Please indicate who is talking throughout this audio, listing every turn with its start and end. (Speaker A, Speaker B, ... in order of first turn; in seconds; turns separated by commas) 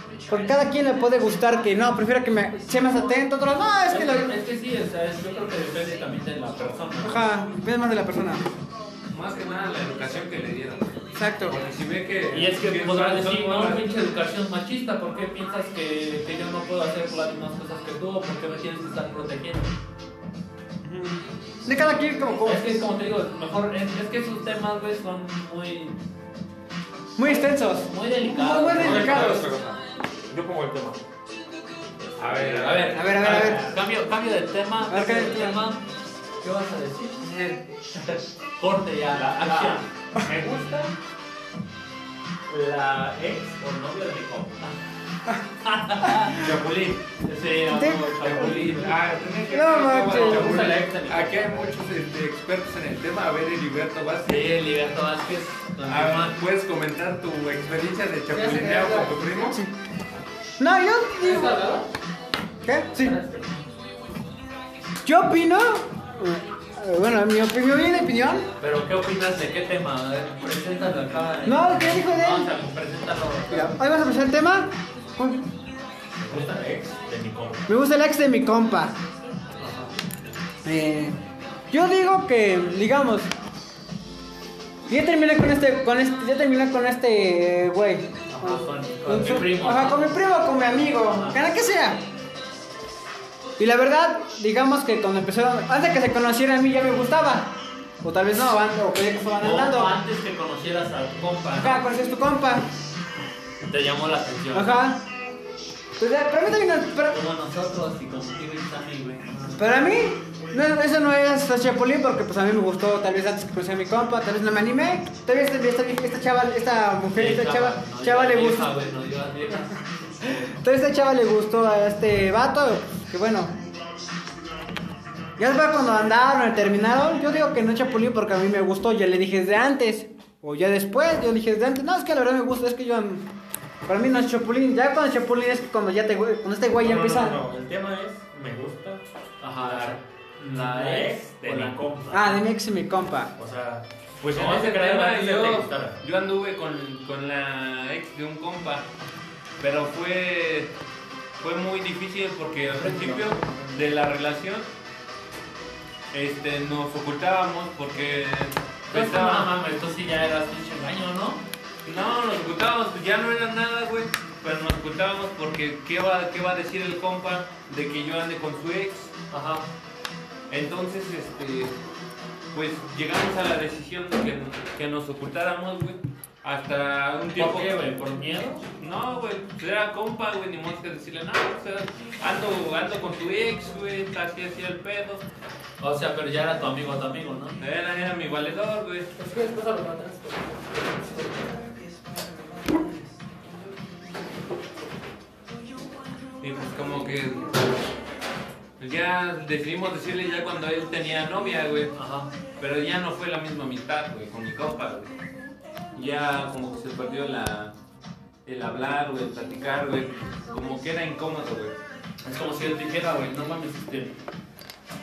Speaker A: 0.3-4.3, Speaker B: 3.9-7.3, Speaker A: 7.0-8.5, Speaker C: 9.1-10.9, Speaker A: 11.1-11.6, Speaker C: 11.5-13.8, Speaker B: 12.3-19.7, Speaker A: 20.9-22.6, Speaker B: 22.4-26.0, Speaker A: 27.2-29.4, Speaker B: 27.2-29.5, Speaker D: 28.7-31.0, Speaker C: 28.8-29.6, Speaker C: 32.2-33.4, Speaker D: 32.2-33.6, Speaker B: 32.3-35.8, Speaker A: 32.9-33.8, Speaker A: 34.9-35.6, Speaker B: 36.4-37.3, Speaker C: 37.2-37.6, Speaker B: 37.9-40.9, Speaker D: 39.1-39.8, Speaker D: 42.5-44.6, Speaker B: 45.6-46.5, Speaker C: 46.3-47.0, Speaker B: 47.2-49.0, Speaker A: 47.7-48.9, Speaker C: 48.3-54.6, Speaker A: 49.4-50.7, Speaker B: 50.1-51.7, Speaker E: 50.7-51.3, Speaker B: 54.2-56.4, Speaker C: 55.9-59.6, Speaker E: 58.3-59.5, Speaker A: 60.6-61.6, Speaker E: 61.2-61.9, Speaker A: 62.6-63.2, Speaker E: 63.0-63.5, Speaker A: 65.0-68.5, Speaker B: 68.6-73.8, Speaker A: 71.5-72.5, Speaker A: 73.5-75.5, Speaker D: 76.2-77.7, Speaker A: 77.7-79.0, Speaker B: 79.6-79.9, Speaker A: 80.6-81.2, Speaker A: 81.7-83.3, Speaker A: 84.9-92.0, Speaker B: 88.3-91.4, Speaker A: 93.6-100.0, Speaker B: 99.4-101.9, Speaker A: 101.6-102.7, Speaker D: 103.7-104.6, Speaker B: 103.9-104.6, Speaker A: 104.5-105.0, Speaker A: 106.0-107.2, Speaker B: 107.1-109.7, Speaker A: 109.5-118.7, Speaker B: 117.1-120.4, Speaker A: 120.2-123.5, Speaker A: 125.4-133.2, Speaker A: 133.9-137.4, Speaker D: 136.8-139.0, Speaker B: 139.4-141.8, Speaker D: 139.5-142.4, Speaker A: 142.1-143.3, Speaker D: 143.4-146.0, Speaker C: 144.3-148.9, Speaker C: 149.6-150.7, Speaker C: 151.4-154.7, Speaker B: 152.8-153.7, Speaker C: 156.1-159.5, Speaker B: 158.9-161.4, Speaker C: 161.8-169.1, Speaker B: 169.3-169.7, Speaker C: 170.5-171.8, Speaker C: 172.5-177.8, Speaker B: 177.4-178.7, Speaker C: 178.8-185.2, Speaker B: 185.8-187.6, Speaker C: 187.6-189.1, Speaker E: 189.2-190.6, Speaker C: 196.4-197.6, Speaker C: 198.8-201.9, Speaker B: 201.9-202.3, Speaker C: 202.6-205.1, Speaker C: 205.9-207.7, Speaker C: 208.4-211.8, Speaker B: 212.2-214.2